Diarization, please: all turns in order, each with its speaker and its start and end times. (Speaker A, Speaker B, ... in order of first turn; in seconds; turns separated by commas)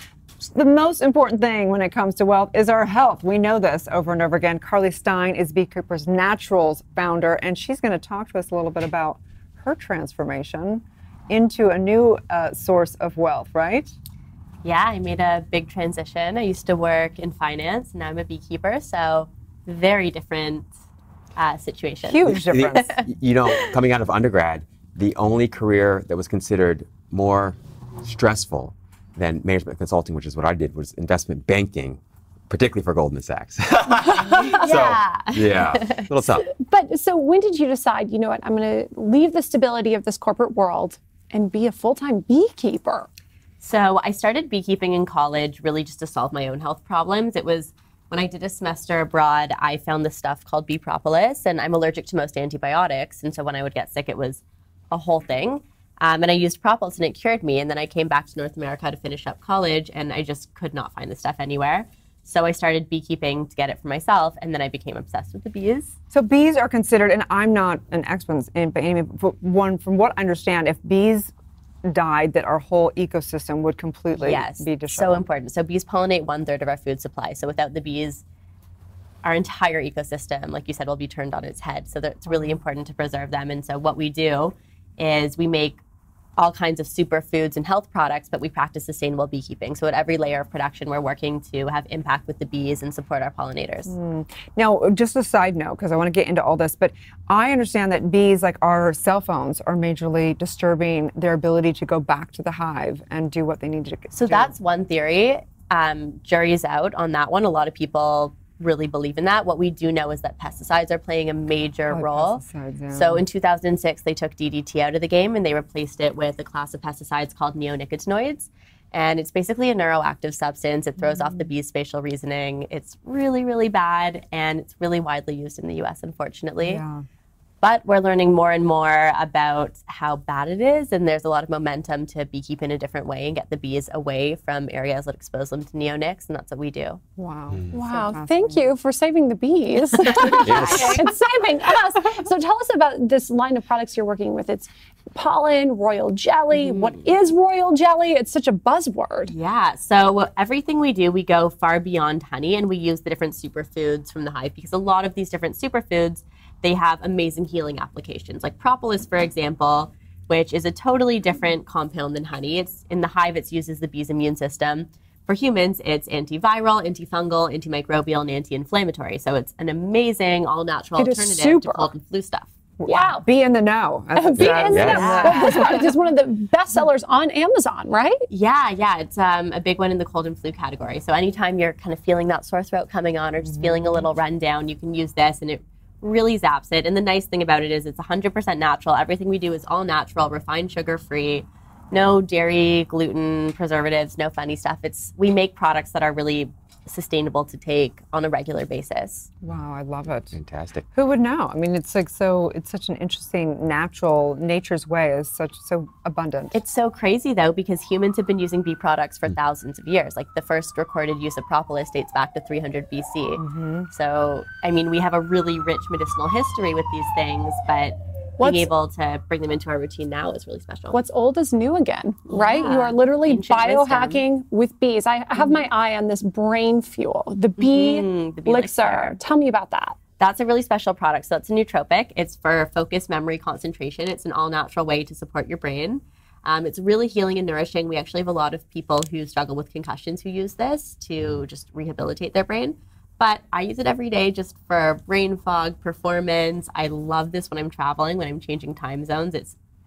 Speaker A: 0.4-13.9, Speaker B: 14.6-20.7, Speaker B: 21.4-23.8, Speaker A: 22.0-22.9, Speaker C: 22.4-36.5, Speaker D: 34.0-34.7, Speaker B: 34.4-36.1, Speaker D: 36.3-43.1, Speaker B: 43.6-65.9, Speaker A: 66.1-71.3, Speaker A: 71.8-75.2, Speaker B: 74.1-78.2, Speaker B: 79.2-85.8, Speaker A: 82.3-82.6, Speaker B: 86.4-93.9, Speaker A: 93.8-104.5, Speaker B: 104.1-126.8, Speaker A: 111.9-113.2, Speaker A: 121.0-121.5, Speaker A: 126.6-127.0, Speaker B: 127.6-137.0, Speaker A: 137.2-138.7, Speaker C: 137.5-137.8, Speaker D: 137.7-149.3, Speaker C: 140.4-141.1, Speaker B: 146.5-147.0, Speaker B: 149.3-172.5, Speaker D: 170.9-171.9, Speaker A: 172.8-175.8, Speaker D: 172.8-173.2, Speaker D: 174.1-178.2, Speaker C: 174.4-175.1, Speaker B: 174.8-175.8, Speaker B: 178.3-199.3, Speaker A: 183.4-184.1, Speaker A: 199.4-200.4, Speaker C: 200.3-200.8, Speaker A: 200.9-206.6, Speaker B: 206.5-221.0, Speaker A: 213.4-213.9, Speaker D: 218.4-218.7, Speaker D: 220.9-230.0, Speaker B: 222.3-224.2, Speaker B: 225.4-225.6, Speaker B: 227.6-229.1, Speaker B: 230.2-249.6